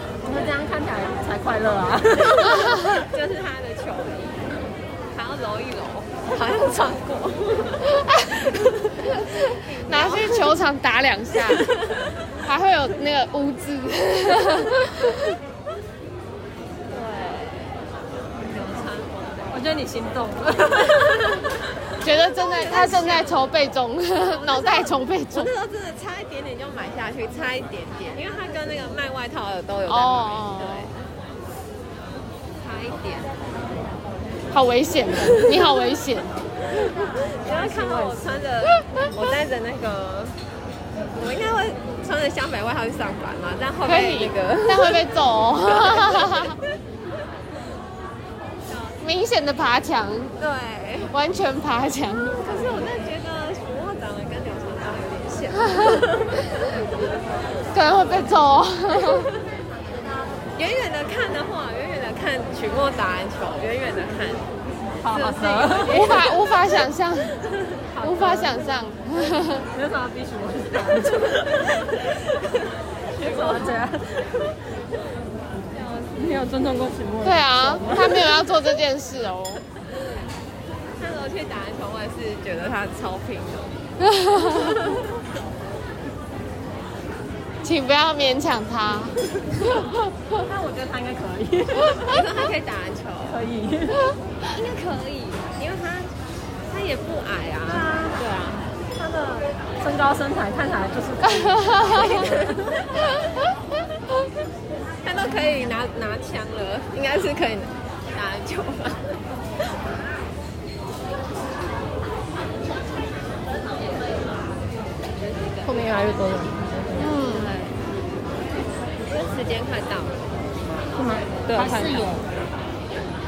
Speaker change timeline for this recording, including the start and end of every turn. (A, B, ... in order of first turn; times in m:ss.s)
0:00.2-0:02.8 A
0:02.4-0:04.5 B
0:02.5-0:02.9 C
0:05.1-0:10.6 B
0:09.8-0:11.6 C
0:11.5-0:12.0 B
0:12.4-0:15.1 C
0:16.9-0:19.6 B
0:19.5-0:21.3 A
0:21.0-0:21.4 B
0:22.0-0:25.5 C
0:22.1-0:23.5 B
0:24.3-0:30.9 B
0:29.9-0:30.9 C
0:32.6-0:33.3 B
0:34.5-0:36.3 C
0:36.8-0:40.3 B
0:37.4-0:38.4 A
0:41.2-0:45.1 B
0:43.8-0:46.6 C
0:45.6-0:46.6 B
0:48.7-0:49.0 B
0:49.0-0:50.4 C
0:50.4-0:51.1 B
0:51.1-0:52.4 C
0:52.4-0:56.7 B
0:57.7-0:59.3 C
0:59.0-0:59.3 B
1:00.6-1:04.5 B
1:05.0-1:06.2 A
1:05.1-1:06.4 B
1:05.9-1:07.4 C
1:07.9-1:08.6 A
1:08.0-1:09.7 C
1:09.7-1:11.5 A
1:11.2-1:12.7 B
1:13.1-1:14.5 A
1:13.2-1:13.8 B
1:15.7-1:16.2 B
1:16.0-1:18.3 A
1:17.2-1:19.6 C
1:21.0-1:23.8 B
1:24.0-1:24.8 C
1:24.5-1:25.1 B
1:27.6-1:30.0 C
1:30.3-1:32.2 A
1:32.1-1:33.4 B
1:33.2-1:34.0 A
1:34.5-1:36.1 B
1:36.7-1:38.7 B
1:37.7-1:38.1 A
1:39.0-1:42.7 A
1:41.3-1:42.2 C
1:41.8-1:42.7 B
1:45.0-1:49.2 B
1:55.2-1:55.8 B
1:55.6-1:57.1 A
1:57.0-1:57.5 C
1:57.2-1:57.8 B
1:59.1-2:00.3 B
2:01.0-2:02.3 A
2:01.4-2:02.3 B